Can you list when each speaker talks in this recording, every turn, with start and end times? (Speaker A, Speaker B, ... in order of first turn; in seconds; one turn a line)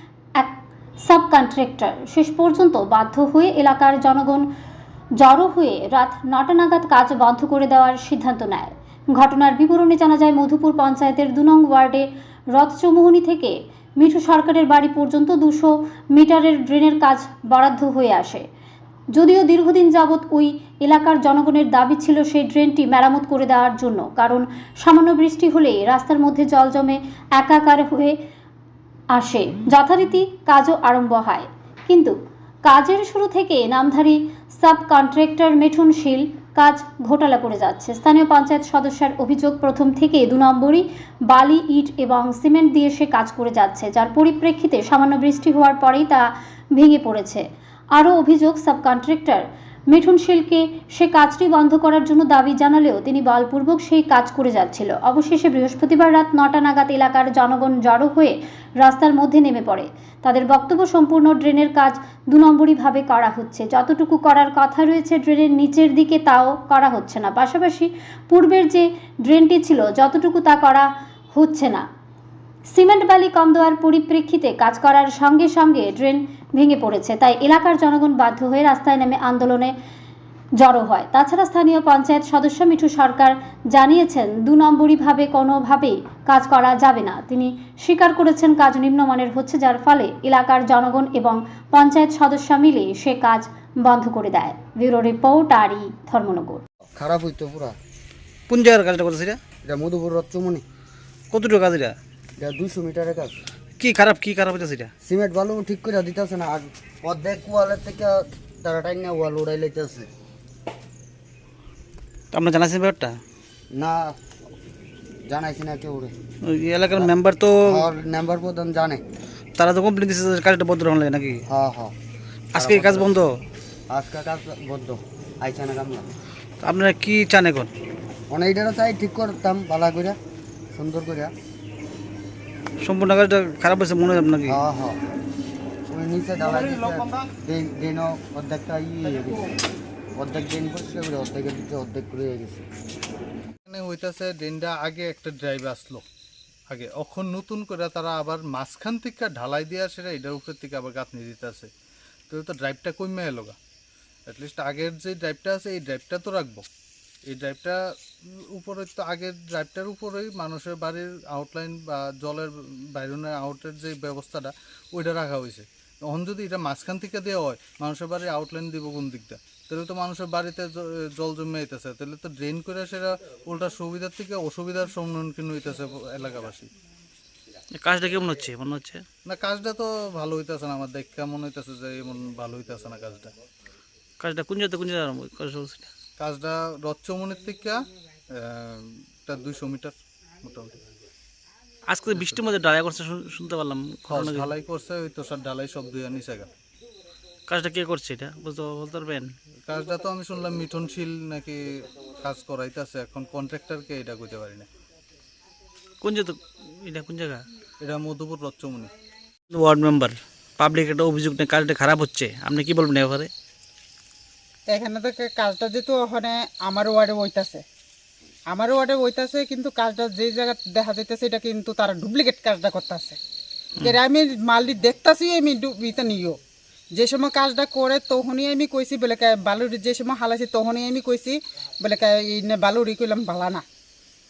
Speaker A: 0.4-4.5
Speaker A: 5.2-18.4
Speaker A: 19.1-28.1
Speaker A: 29.1-71.8
Speaker A: 72.7-79.7
Speaker A: 80.6-96.6
Speaker B: 96.9-97.8
Speaker C: 98.5-99.4
Speaker B: 99.6-100.6
Speaker C: 101.3-102.0
Speaker B: 102.4-103.3
Speaker C: 103.8-104.9
Speaker B: 105.0-110.1
Speaker C: 112.3-113.2
Speaker B: 113.7-114.2
Speaker B: 115.2-116.1
Speaker C: 116.4-117.8
Speaker B: 117.7-119.0
Speaker C: 119.6-121.4
Speaker B: 121.5-121.9
Speaker B: 122.5-123.1
Speaker C: 122.5-123.4
Speaker B: 123.9-126.1
Speaker C: 126.6-127.7
Speaker B: 128.3-130.2
Speaker B: 130.7-131.3
Speaker C: 132.8-134.6
Speaker B: 134.5-135.0
Speaker B: 135.9-139.5
Speaker B: 140.2-142.7
Speaker D: 143.7-146.0
Speaker D: 146.7-151.7
Speaker D: 152.3-153.6
Speaker D: 154.3-156.7
Speaker D: 157.2-157.8
Speaker D: 158.5-176.7
Speaker C: 177.8-179.0
Speaker D: 179.2-183.3
Speaker C: 184.2-185.9
Speaker D: 186.2-190.8
Speaker C: 191.9-194.5
Speaker D: 194.1-196.5
Speaker C: 197.5-199.3
Speaker D: 199.7-204.7
Speaker C: 206.0-207.4
Speaker D: 207.8-208.9
Speaker C: 209.5-213.3
Speaker E: 214.7-217.6
Speaker E: 218.5-223.2
Speaker E: 223.8-226.4
Speaker E: 226.9-233.6